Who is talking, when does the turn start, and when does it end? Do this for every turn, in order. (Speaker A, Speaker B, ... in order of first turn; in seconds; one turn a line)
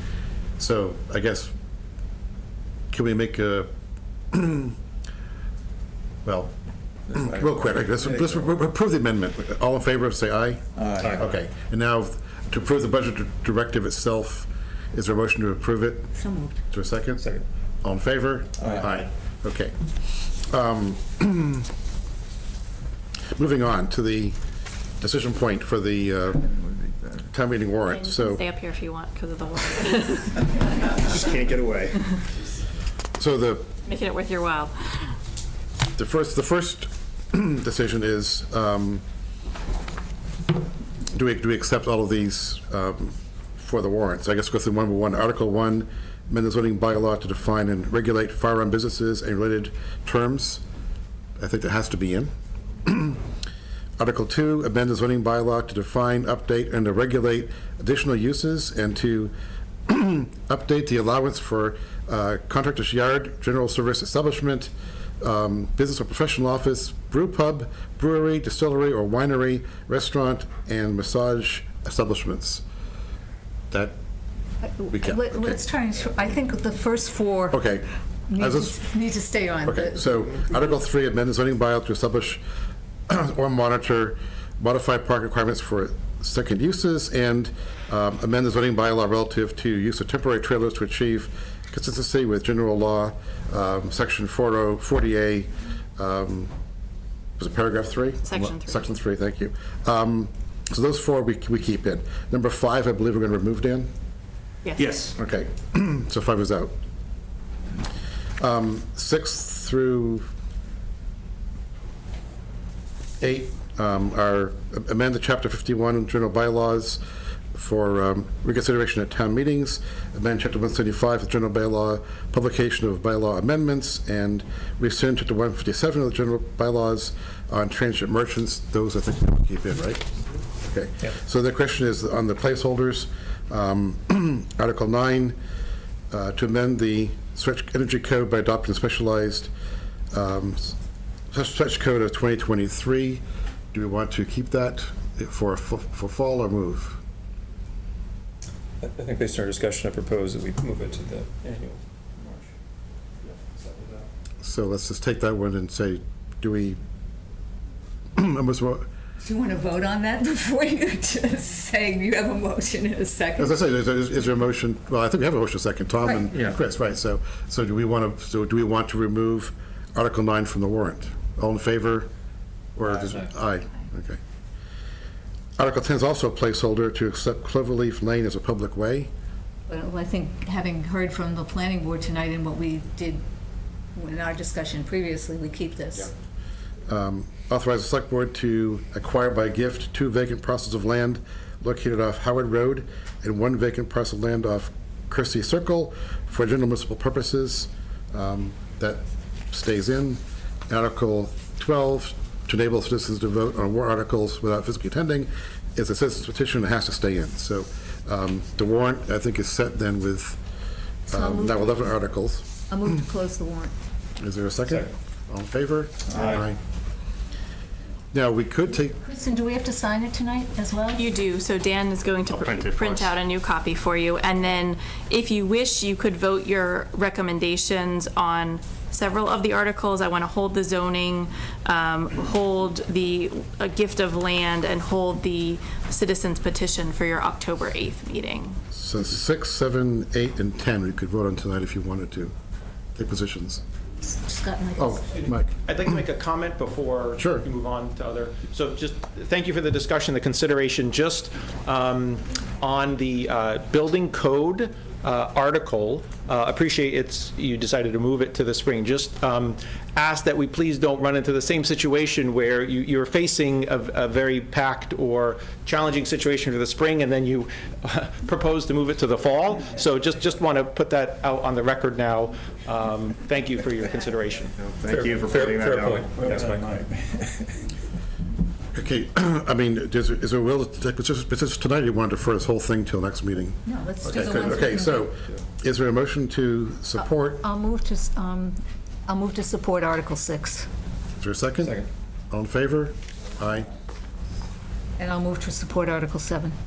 Speaker A: 0.6-1.5
Speaker A: 2.9-3.7
Speaker A: 4.3-4.8
Speaker A: 6.2-6.5
Speaker B: 7.1-8.4
Speaker A: 7.1-10.6
Speaker C: 10.8-11.2
Speaker A: 11.1-16.1
Speaker D: 16.1-16.6
Speaker A: 16.7-17.2
Speaker A: 17.8-19.7
Speaker A: 20.3-21.7
Speaker A: 23.4-24.4
Speaker A: 25.0-28.4
Speaker E: 27.9-31.4
Speaker C: 31.1-32.0
Speaker A: 33.2-33.7
Speaker E: 33.8-35.1
Speaker A: 36.0-39.0
Speaker A: 41.1-50.6
Speaker A: 51.4-52.3
Speaker A: 52.8-53.2
Speaker A: 54.0-59.3
Speaker A: 59.9-72.6
Speaker A: 73.7-74.0
Speaker D: 74.6-77.6
Speaker A: 74.9-75.6
Speaker A: 77.5-77.9
Speaker D: 78.3-80.4
Speaker A: 78.4-78.8
Speaker A: 79.7-82.4
Speaker A: 83.1-96.5
Speaker A: 97.4-103.9
Speaker E: 98.2-98.9
Speaker E: 104.6-105.0
Speaker C: 104.8-105.1
Speaker A: 105.1-106.7
Speaker A: 108.4-110.3
Speaker A: 113.2-117.0
Speaker A: 117.5-130.1
Speaker A: 130.6-135.4
Speaker A: 136.1-139.5
Speaker A: 140.1-140.8
Speaker A: 141.3-147.0
Speaker B: 148.8-151.5
Speaker A: 154.4-156.8
Speaker A: 158.2-158.9
Speaker D: 159.2-163.6
Speaker A: 163.4-172.1
Speaker A: 172.8-174.2
Speaker A: 175.6-179.1
Speaker D: 179.7-183.2
Speaker D: 183.9-186.1
Speaker A: 186.9-210.4
Speaker A: 211.1-212.6
Speaker D: 211.1-211.8
Speaker D: 212.7-213.7
Speaker A: 214.2-216.6
Speaker B: 216.1-216.4
Speaker A: 218.1-219.0
Speaker D: 219.0-221.1
Speaker E: 220.9-238.6
Speaker C: 222.3-223.1
Speaker A: 238.7-242.3
Speaker A: 242.9-243.6
Speaker D: 244.0-245.0
Speaker A: 244.8-245.5
Speaker F: 245.2-274.5
Speaker A: 247.2-247.4
Speaker C: 274.5-276.8
Speaker B: 274.9-277.5
Speaker A: 278.7-287.4
Speaker D: 283.6-285.1
Speaker D: 287.0-290.7
Speaker A: 291.2-293.7
Speaker D: 295.0-296.5